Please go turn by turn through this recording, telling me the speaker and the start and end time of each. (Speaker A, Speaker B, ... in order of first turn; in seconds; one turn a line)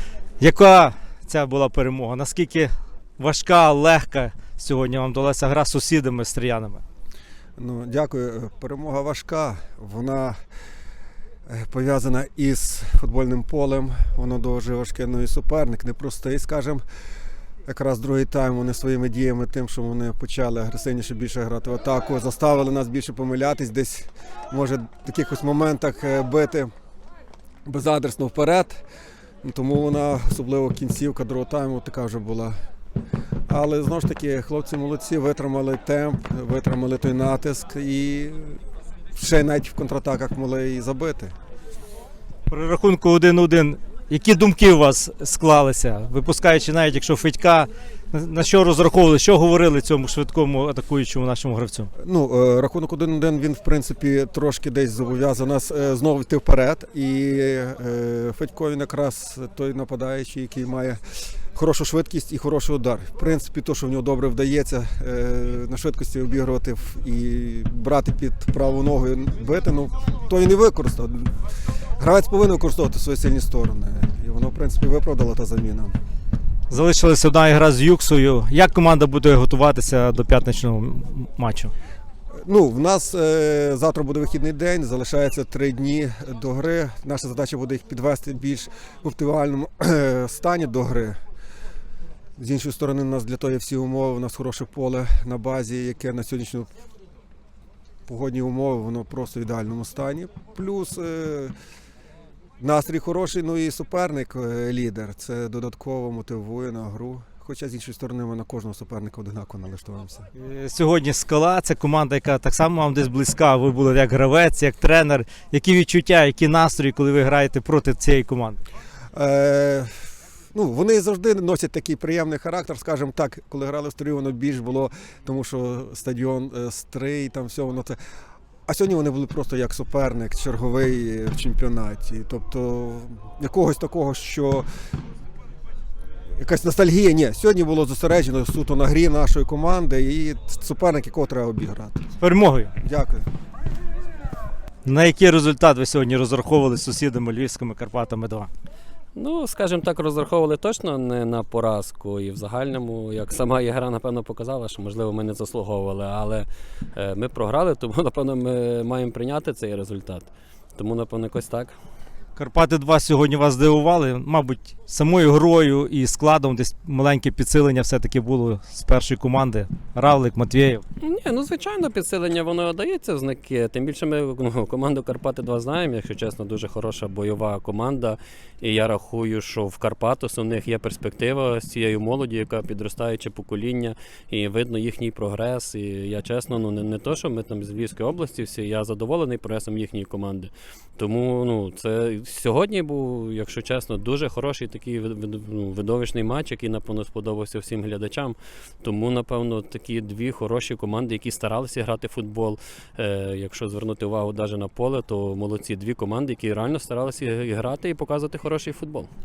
Speaker A: 0.4-6.8
Speaker B: 7.6-10.3
Speaker B: 11.5-16.8
Speaker B: 17.7-26.7
Speaker B: 27.7-28.8
Speaker B: 29.4-32.5
Speaker B: 33.5-38.6
Speaker B: 39.2-41.3
Speaker A: 42.5-51.9
Speaker B: 52.0-61.0
Speaker B: 61.5-71.3
Speaker B: 72.0-76.0
Speaker A: 76.7-81.7
Speaker B: 82.4-91.2
Speaker B: 92.4-96.7
Speaker B: 98.1-101.5
Speaker B: 102.6-110.3
Speaker A: 110.3-118.6
Speaker B: 119.2-119.9
Speaker B: 120.5-128.0
Speaker B: 128.7-134.7
Speaker B: 136.3-142.0
Speaker A: 142.2-142.7
Speaker B: 142.8-143.2
Speaker A: 144.8-148.5
Speaker C: 149.2-161.7
Speaker A: 162.3-170.8
Speaker C: 171.0-209.1